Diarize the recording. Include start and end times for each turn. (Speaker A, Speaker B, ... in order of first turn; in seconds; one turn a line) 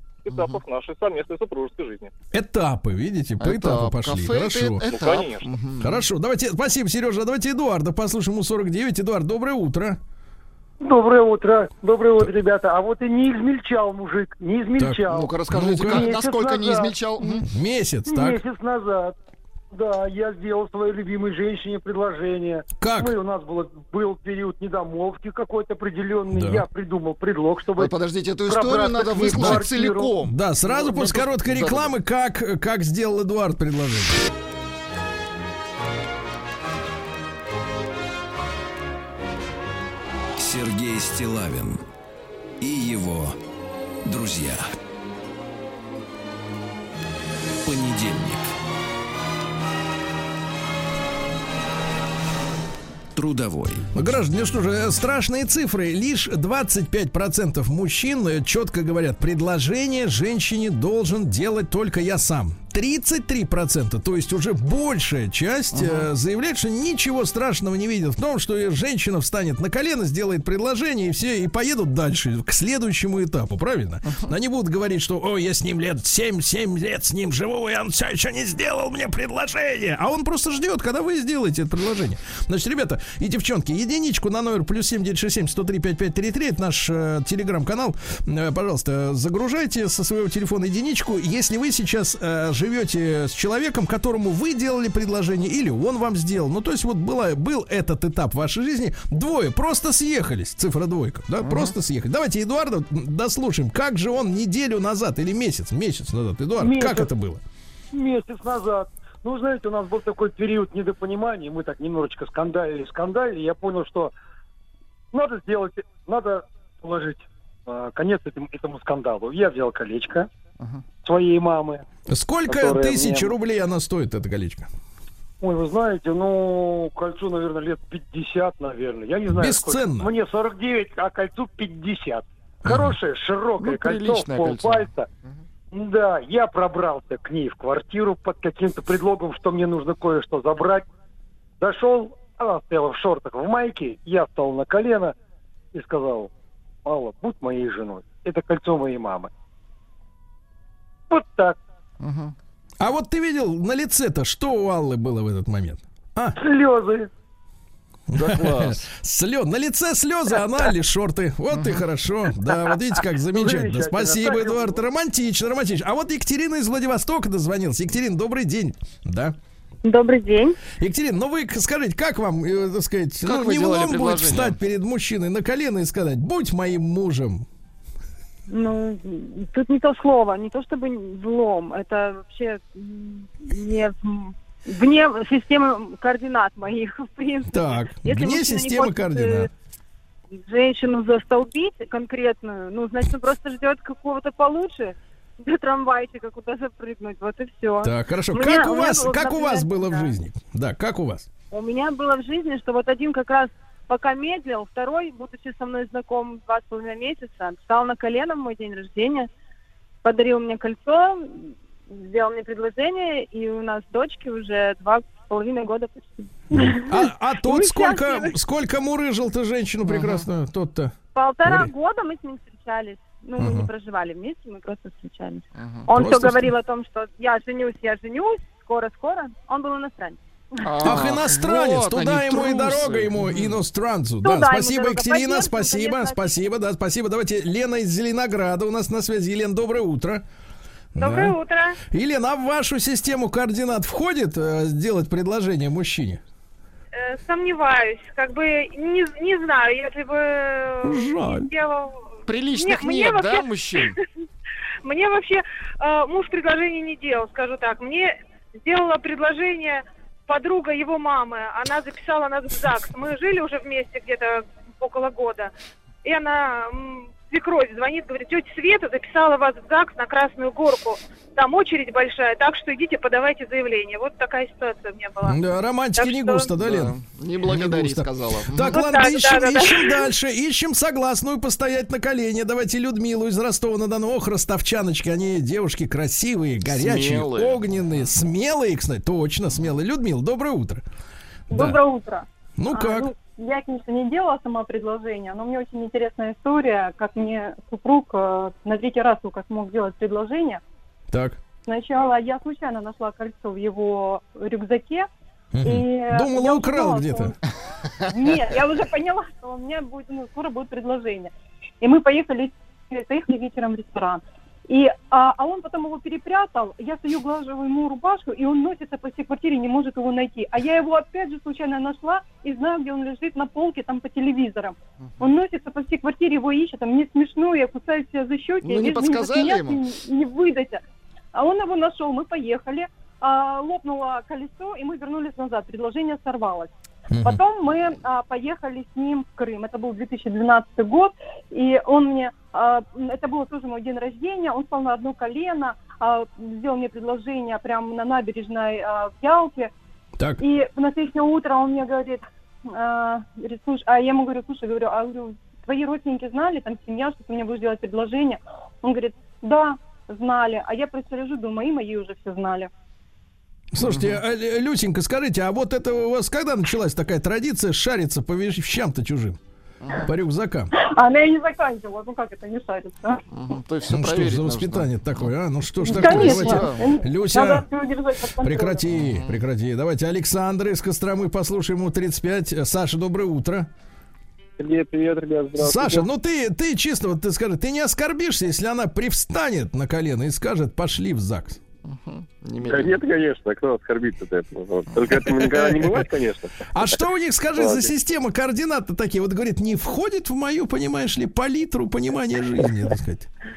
Speaker A: 0.2-2.1
Speaker B: 0.3-0.6
Speaker C: 2.3-4.8
Speaker B: 3.4-6.0
Speaker A: 4.9-5.5
Speaker C: 5.8-10.0
Speaker D: 10.8-16.9
Speaker C: 14.8-16.1
Speaker B: 15.1-17.5
Speaker C: 17.5-18.4
Speaker D: 18.1-19.1
Speaker D: 19.7-27.9
Speaker C: 22.8-23.2
Speaker C: 26.3-26.6
Speaker B: 27.8-32.0
Speaker D: 28.5-30.1
Speaker C: 29.3-29.6
Speaker C: 30.2-34.2
Speaker E: 40.4-41.8
Speaker E: 42.6-43.4
Speaker E: 44.0-44.7
Speaker E: 47.6-48.5
Speaker E: 53.2-53.9
Speaker C: 54.0-107.4
Speaker B: 65.7-66.1
Speaker B: 74.0-74.3
Speaker B: 101.4-101.7
Speaker D: 106.6-107.1
Speaker D: 107.9-114.1
Speaker D: 115.1-120.3
Speaker D: 121.0-121.8
Speaker C: 122.1-124.7
Speaker D: 122.5-123.3
Speaker D: 125.4-135.1
Speaker C: 129.3-130.1
Speaker C: 132.7-133.0
Speaker B: 133.6-135.4
Speaker D: 135.7-140.9
Speaker D: 141.6-145.2
Speaker D: 145.7-146.3
Speaker D: 146.8-149.3
Speaker D: 151.1-151.6
Speaker B: 152.0-152.3
Speaker C: 152.8-156.4
Speaker D: 156.4-157.1
Speaker C: 158.1-169.4
Speaker B: 158.1-158.9
Speaker B: 161.5-161.8
Speaker D: 163.3-164.8
Speaker F: 169.8-170.6
Speaker C: 170.8-177.5
Speaker B: 173.2-174.6
Speaker F: 178.5-189.5
Speaker C: 187.5-189.5
Speaker F: 190.3-200.1
Speaker C: 197.8-201.3
Speaker F: 201.5-209.3
Speaker F: 210.0-218.3
Speaker C: 216.5-221.7
Speaker F: 221.2-230.2
Speaker C: 223.4-223.7
Speaker B: 225.6-225.9
Speaker C: 225.9-226.5
Speaker B: 230.6-233.6
Speaker C: 230.8-240.2
Speaker F: 234.2-236.4
Speaker C: 240.9-241.3
Speaker G: 241.0-241.8
Speaker C: 241.9-246.2
Speaker G: 246.9-253.5
Speaker C: 250.8-251.5
Speaker B: 252.3-253.9
Speaker G: 254.8-265.5
Speaker G: 266.0-275.4
Speaker C: 275.2-290.8
Speaker G: 276.0-276.5
Speaker B: 276.6-278.8
Speaker G: 278.7-280.1
Speaker B: 286.7-288.1
Speaker C: 291.5-291.8
Speaker H: 291.5-300.6
Speaker C: 292.6-293.1
Speaker C: 301.1-301.4
Speaker H: 301.7-305.1
Speaker C: 305.5-307.4
Speaker H: 305.6-307.4
Speaker B: 307.9-308.5
Speaker H: 308.1-330.8
Speaker B: 328.6-329.8
Speaker H: 331.3-336.7
Speaker C: 337.1-337.4
Speaker H: 337.2-349.7
Speaker H: 350.4-362.7
Speaker C: 363.7-369.4
Speaker B: 363.8-364.2
Speaker B: 369.8-370.1
Speaker C: 370.0-370.7
Speaker H: 370.8-373.2
Speaker B: 373.3-375.3
Speaker C: 373.9-377.6
Speaker H: 375.8-378.8
Speaker B: 375.9-376.9
Speaker C: 378.4-383.7
Speaker B: 378.9-379.4
Speaker D: 384.6-386.1
Speaker C: 385.6-391.6
Speaker B: 391.9-393.0
Speaker D: 392.6-397.0
Speaker C: 395.4-396.1
Speaker C: 396.7-403.3
Speaker D: 397.6-397.9